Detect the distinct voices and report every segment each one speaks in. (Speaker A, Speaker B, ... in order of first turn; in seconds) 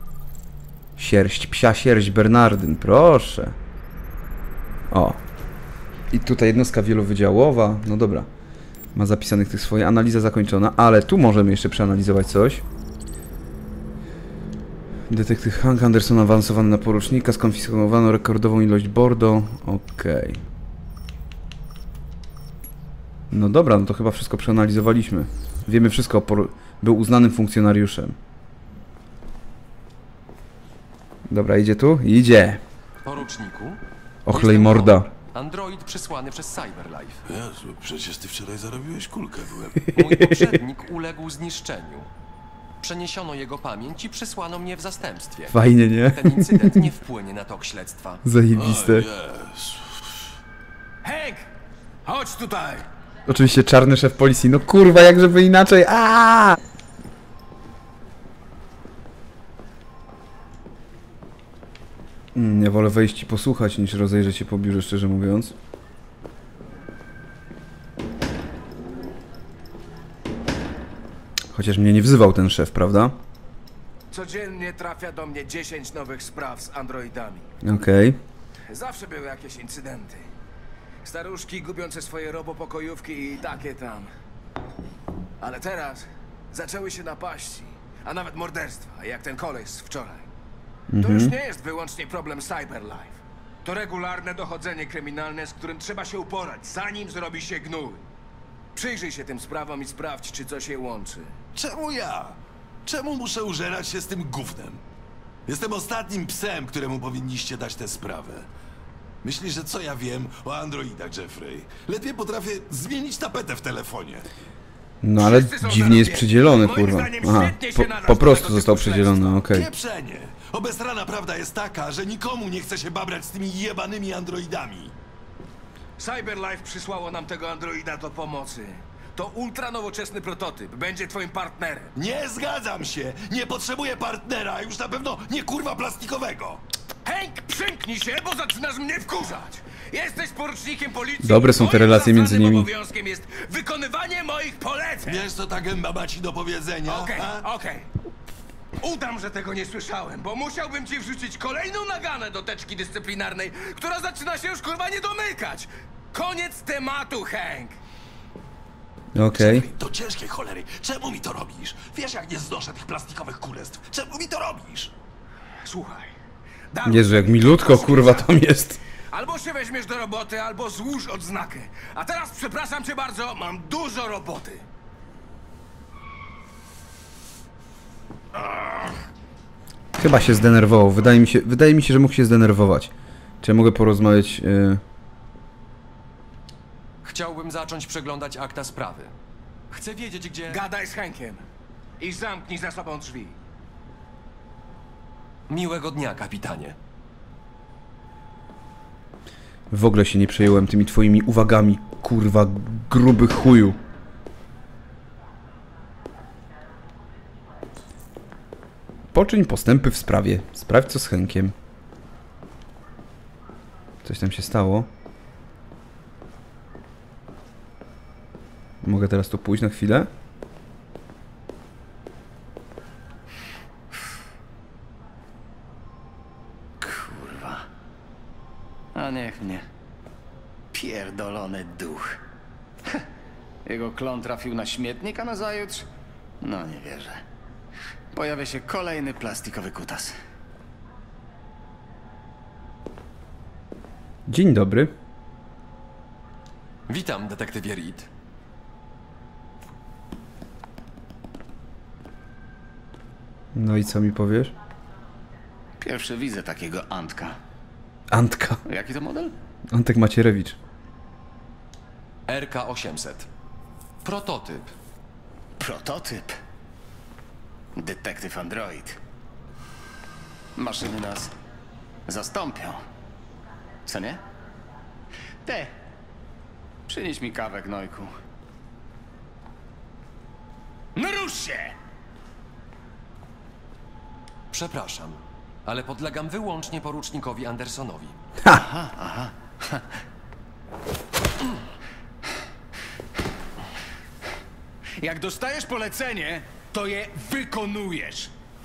Speaker A: 1.0-3.6, 4.9-5.2, 6.1-8.3, 8.9-12.6, 15.1-20.4, 23.3-28.2, 31.3-32.6, 34.3-35.1, 45.5-46.9, 48.2-49.1, 53.3-56.6, 62.4-65.5, 71.5-73.2, 77.6-78.2, 90.9-91.3, 115.0-119.7, 141.2-142.7, 159.2-159.7, 166.8-168.8, 180.0-184.8, 199.7-203.8, 209.1-211.5, 214.0-214.9, 218.8-220.1, 244.3-244.9, 253.5-254.5, 258.1-258.6, 259.7-260.6
Speaker B: 33.0-37.2, 39.9-42.1, 42.8-48.2, 187.0-189.1, 189.7-190.6, 195.5-196.8, 246.9-248.1, 262.3-263.3, 264.0-264.8, 284.5-288.2
Speaker C: 37.3-39.9, 48.5-50.1, 101.5-104.8, 105.5-108.5, 109.2-114.3, 119.5-125.0, 132.0-136.6, 145.0-147.5, 159.3-164.9
Speaker D: 51.0-51.5, 52.0-52.9, 74.1-77.5, 78.7-80.3, 81.0-84.1, 85.4-90.3, 91.0-98.0, 98.8-101.3, 115.2-119.4, 126.0-131.9, 137.1-145.3, 146.9-147.9, 148.8-157.8, 165.6-166.1, 166.7-168.4, 169.1-174.7, 190.5-191.4, 192.0-193.4, 281.0-281.7
Speaker E: 226.8-227.7, 228.9-229.7, 230.7-232.2, 233.7-235.9, 236.4-237.2, 238.1-240.1, 255.8-257.4, 258.7-259.4, 265.6-266.3, 267.8-269.0, 270.6-271.3, 272.1-272.8, 273.9-274.2, 275.4-275.8, 276.9-278.1, 288.5-289.8, 295.0-298.3